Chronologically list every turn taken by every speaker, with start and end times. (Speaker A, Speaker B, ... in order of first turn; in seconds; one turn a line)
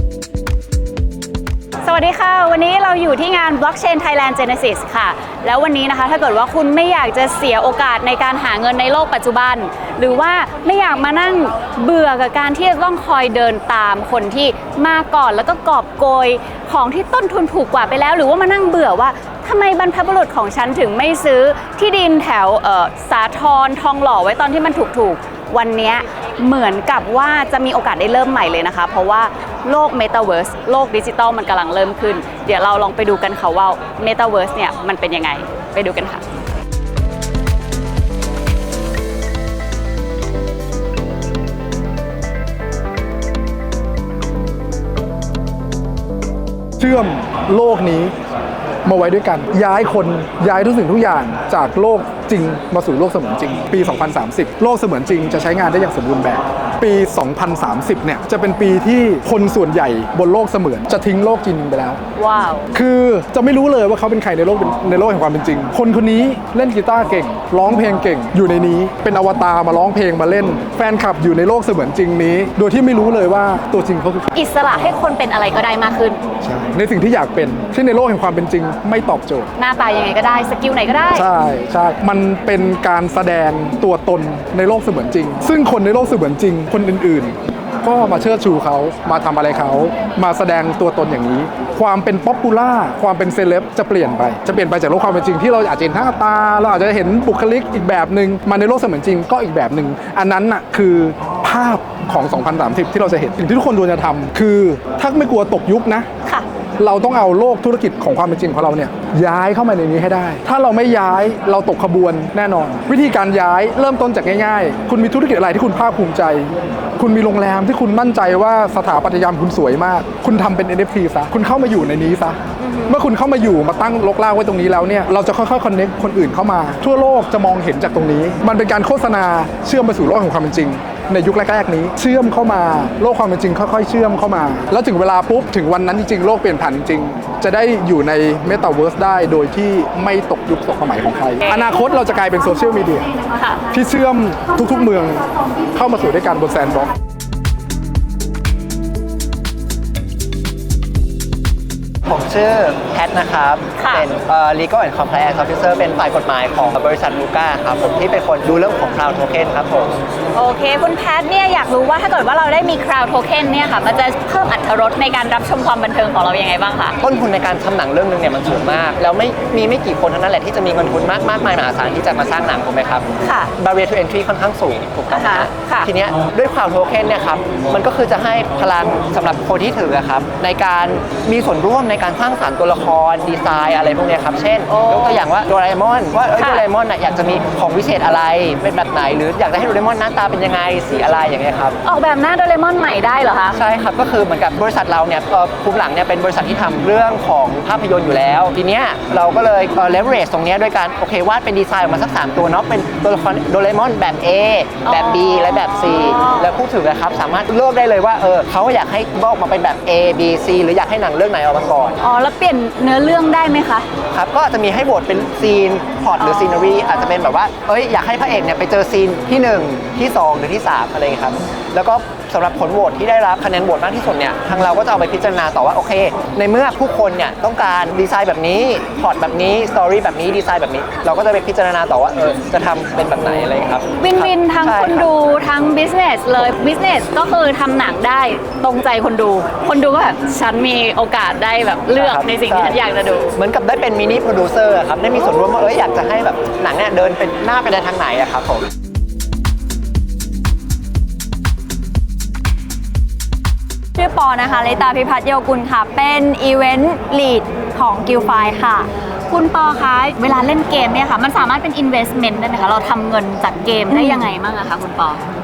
Speaker A: 1.8-36.2
Speaker B: 46.8-48.1
Speaker B: 48.9-62.0
Speaker A: 62.2-62.7
Speaker B: 62.7-74.3
Speaker A: 74.3-76.2
Speaker B: 76.4-79.5
Speaker A: 79.6-81.3
Speaker B: 81.1-106.1
Speaker B: 106.8-143.1
Speaker A: 122.6-123.0
Speaker A: 141.4-141.8
Speaker A: 143.3-143.6
Speaker B: 143.7-146.9
Speaker C: 152.1-159.9
Speaker A: 153.8-154.0
Speaker A: 160.3-166.9
Speaker C: 167.0-191.8
Speaker A: 173.2-173.5
Speaker A: 175.1-175.9
Speaker A: 184.7-185.2
Speaker A: 186.3-186.6
Speaker A: 191.8-193.6
Speaker C: 193.5-212.0
Speaker A: 204.8-206.5
Speaker A: 212.0-213.9
Speaker C: 214.1-235.1
Speaker A: 234.0-243.3
Speaker C: 241.9-242.8
Speaker C: 243.3-248.7
Speaker D: 253.9-258.9
Speaker A: 259.3-265.2
Speaker D: 263.9-264.3